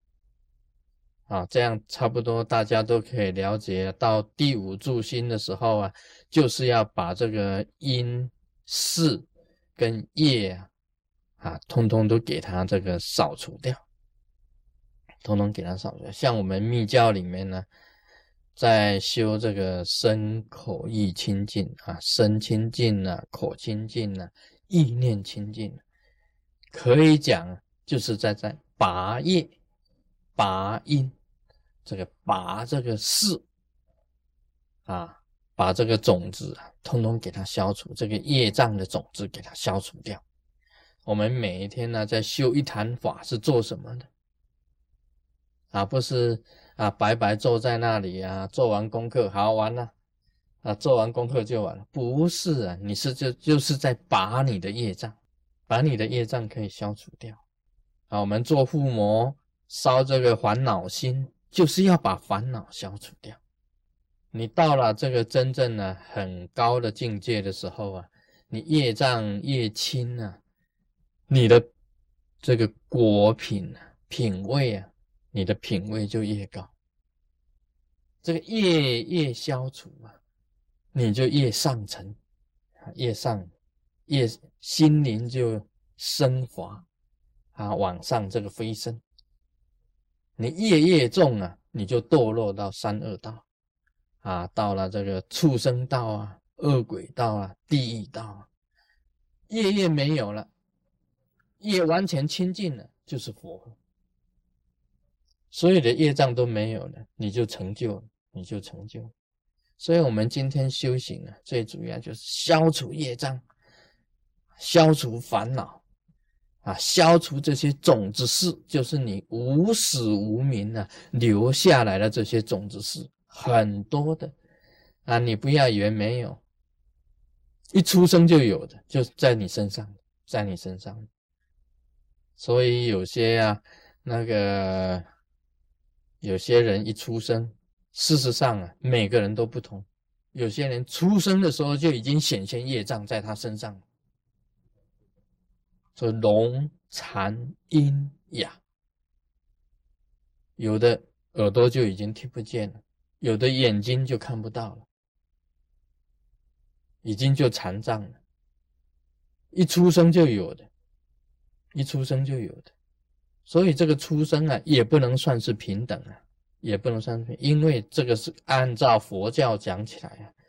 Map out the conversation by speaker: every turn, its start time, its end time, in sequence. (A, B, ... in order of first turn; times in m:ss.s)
0:01.3-0:10.7 A
0:11.4-0:13.8 A
0:15.2-0:17.7 A
0:18.6-0:25.8 A
0:26.7-0:29.5 A
0:30.4-0:31.1 A
0:31.8-0:33.4 A
0:34.8-0:40.2 A
0:41.0-0:44.1 A
0:45.7-0:49.9 A
0:50.6-0:57.4 A
0:58.1-1:03.4 A
1:04.3-1:10.4 A
1:11.3-1:11.7 A
1:12.4-1:16.7 A
1:18.2-1:20.2 A
1:20.9-1:22.2 A
1:22.9-1:23.5 A
1:24.1-1:26.8 A
1:27.5-1:29.0 A
1:30.4-1:33.4 A
1:34.2-1:38.5 A
1:39.5-1:40.5 A
1:41.6-1:43.8 A
1:45.5-1:49.1 A
1:49.8-1:53.4 A
1:54.6-1:55.8 A
1:56.6-2:04.3 A
2:05.0-2:06.4 A
2:07.7-2:11.1 A
2:12.4-2:15.0 A
2:16.2-2:23.8 A
2:25.9-2:28.6 A
2:30.6-2:34.8 A
2:37.0-2:38.2 A
2:39.5-2:40.7 A
2:41.7-2:42.7 A
2:43.4-2:50.3 A